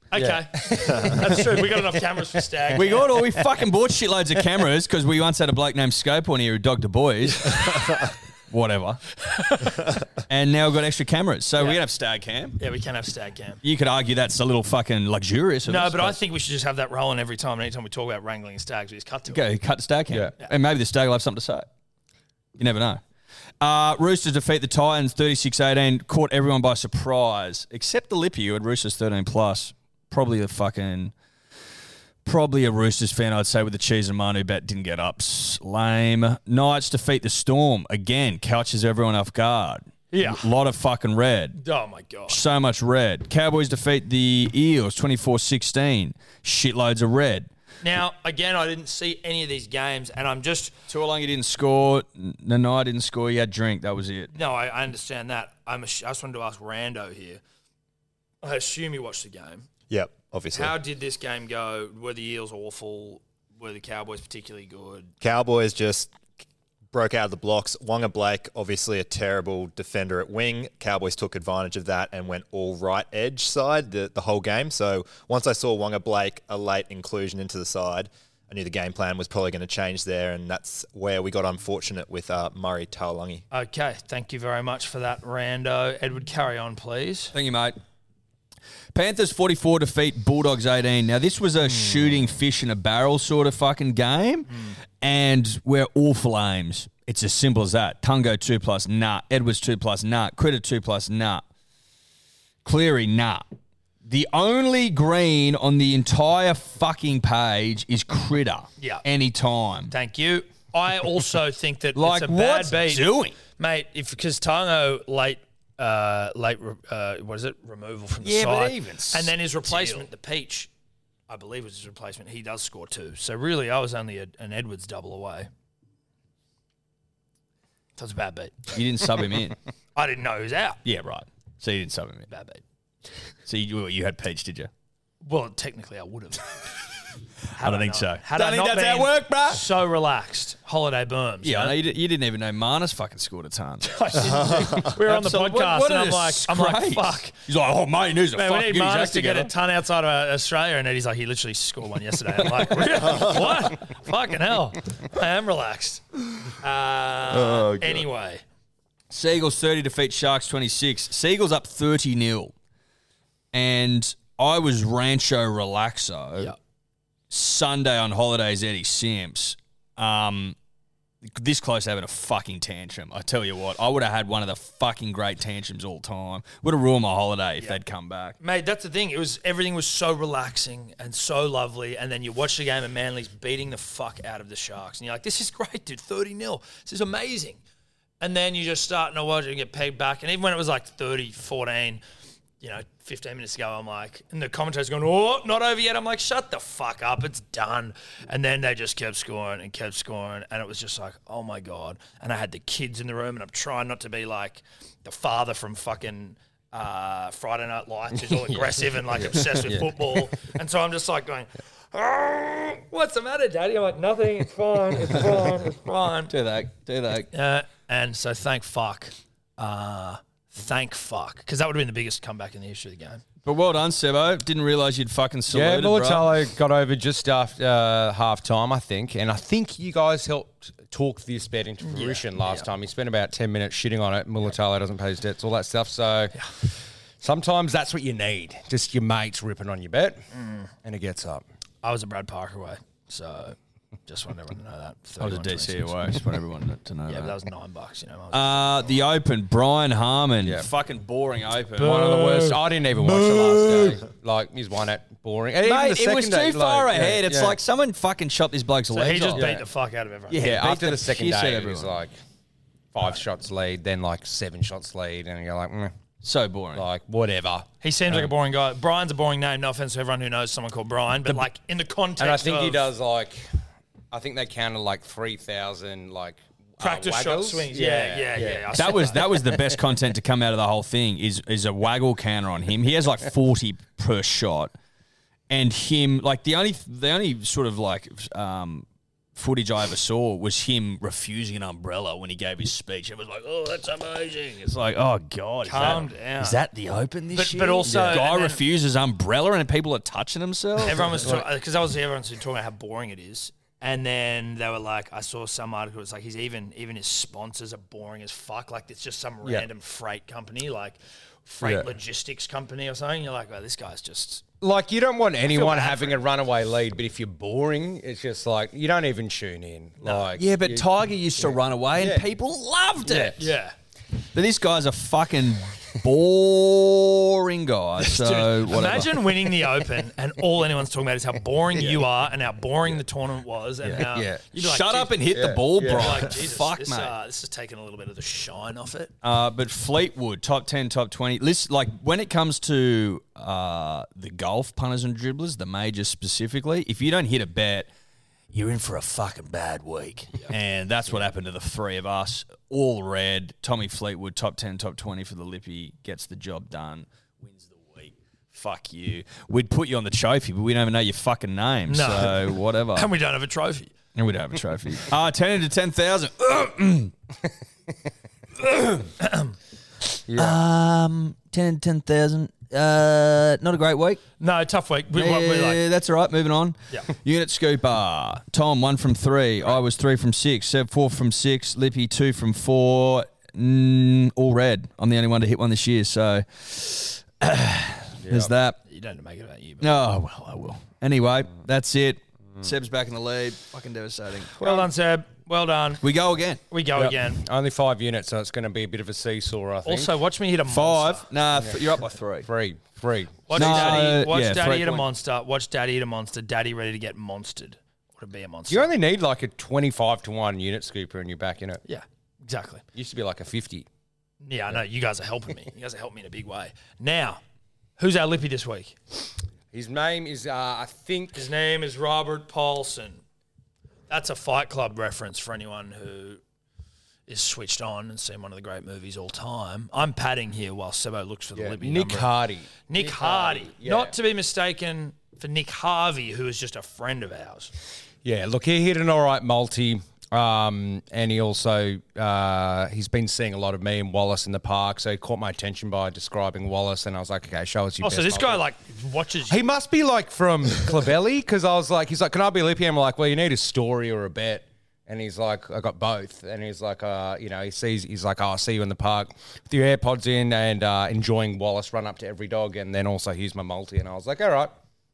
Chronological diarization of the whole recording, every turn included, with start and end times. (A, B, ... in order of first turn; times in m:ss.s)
0:00.1-0:03.2 A
0:00.1-0:01.6 B
0:02.7-0:09.7 C
0:09.4-0:09.8 A
0:10.2-0:12.6 C
0:12.6-0:13.6 A
0:13.6-0:16.2 C
0:15.6-0:19.5 A
0:19.3-0:21.6 C
0:22.6-0:23.0 C
0:23.6-0:31.1 C
0:32.2-0:41.6 C
0:40.1-0:40.5 A
0:41.6-0:42.4 A
0:42.3-0:47.5 C
0:47.8-0:50.7 A
0:50.9-0:54.3 C
0:54.3-0:57.4 A
0:58.4-0:59.7 A
0:59.9-1:00.7 D
1:00.5-1:05.1 A
1:05.2-1:06.1 D
1:06.9-1:23.4 D
1:23.5-1:27.3 A
1:27.3-1:27.8 C
1:28.9-1:41.4 C
1:42.6-1:43.4 C
1:44.0-1:49.9 C
1:49.9-2:00.7 A
1:51.9-1:53.4 C
1:58.2-2:00.1 C
2:01.3-2:05.5 A
2:08.0-2:08.8 A
2:08.7-2:09.6 C
2:10.0-2:10.8 A
2:10.8-2:12.3 C
2:12.3-2:12.6 A
2:13.4-2:14.7 C
2:15.2-2:16.6 A
2:17.5-2:21.8 A
2:17.6-2:19.7 C
2:21.4-2:29.5 C
2:23.8-2:27.4 A
2:28.3-2:38.4 A
2:37.4-2:38.0 C
2:39.1-2:42.5 C
2:43.5-2:46.5 C
2:47.3-2:50.5 C
2:51.2-2:58.4 C
2:58.4-3:07.6 A
3:08.2-3:12.0 A
3:12.6-3:36.3 A
3:36.3-3:37.3 C
3:37.3-3:43.2 A
3:43.4-3:46.3 C
3:45.5-3:56.3 B
3:51.8-3:52.6 A
3:57.2-4:00.2 B
4:00.3-4:00.7 A
4:00.8-4:01.4 B
4:01.8-4:03.6 A
4:04.1-4:06.0 A
4:05.2-4:07.4 C
4:07.1-4:09.0 A
4:08.3-4:14.0 C
4:10.4-4:10.7 B
4:11.8-4:17.6 B
4:11.8-4:12.3 A
4:15.6-4:19.5 C
4:18.9-4:20.4 A
4:19.3-4:19.6 B
4:20.3-4:22.0 C
4:20.4-4:22.1 B
4:22.9-4:25.9 B
4:26.2-4:26.8 C
4:26.7-4:27.7 B
4:27.8-4:32.9 A
4:32.2-4:38.7 B
4:36.8-4:39.2 A
4:38.7-4:44.7 C
4:45.5-5:01.3 C
4:55.6-4:56.6 A
4:57.3-4:58.6 A
4:57.8-4:58.2 B
5:00.8-5:14.4 A
5:11.6-5:11.9 B
5:14.6-5:20.9 B
5:15.4-5:16.2 A
5:20.0-5:20.3 A
5:20.4-5:23.5 C
5:21.4-5:22.2 B
5:23.0-5:23.4 B
5:23.4-5:23.7 A
5:24.3-5:29.3 C
5:28.0-5:39.1 A
5:33.8-5:34.4 B
5:34.5-5:37.1 C
5:35.3-5:36.3 B
5:39.2-5:47.9 C
5:48.5-6:03.1 C
6:01.9-6:03.9 A
6:04.1-6:07.1 C
6:08.6-6:09.1 C
6:09.2-6:09.5 A
6:10.3-6:10.6 B
6:10.3-6:14.2 C
6:14.4-6:15.8 A
6:15.1-6:28.8 C
6:28.2-6:28.5 B
6:28.9-6:29.9 A
6:29.8-6:34.8 C
6:34.6-6:36.0 A
6:36.0-6:36.6 C
6:36.7-6:37.4 A
6:36.9-6:40.1 B
6:39.8-6:41.2 A
6:40.6-6:42.5 C
6:42.4-6:44.1 B
6:43.5-6:48.9 A
6:43.5-6:45.1 C
6:48.7-6:51.8 B
6:51.8-6:52.8 A
6:52.9-6:53.9 B
6:54.4-6:57.4 A
6:58.0-6:59.0 A
6:59.7-7:01.4 B
7:01.3-7:03.2 A
7:04.1-7:06.4 A
7:07.3-7:12.3 A
7:11.5-7:14.1 B
7:12.9-7:17.7 A
7:18.2-7:28.6 B
7:28.0-7:29.6 A
7:29.5-7:44.8 B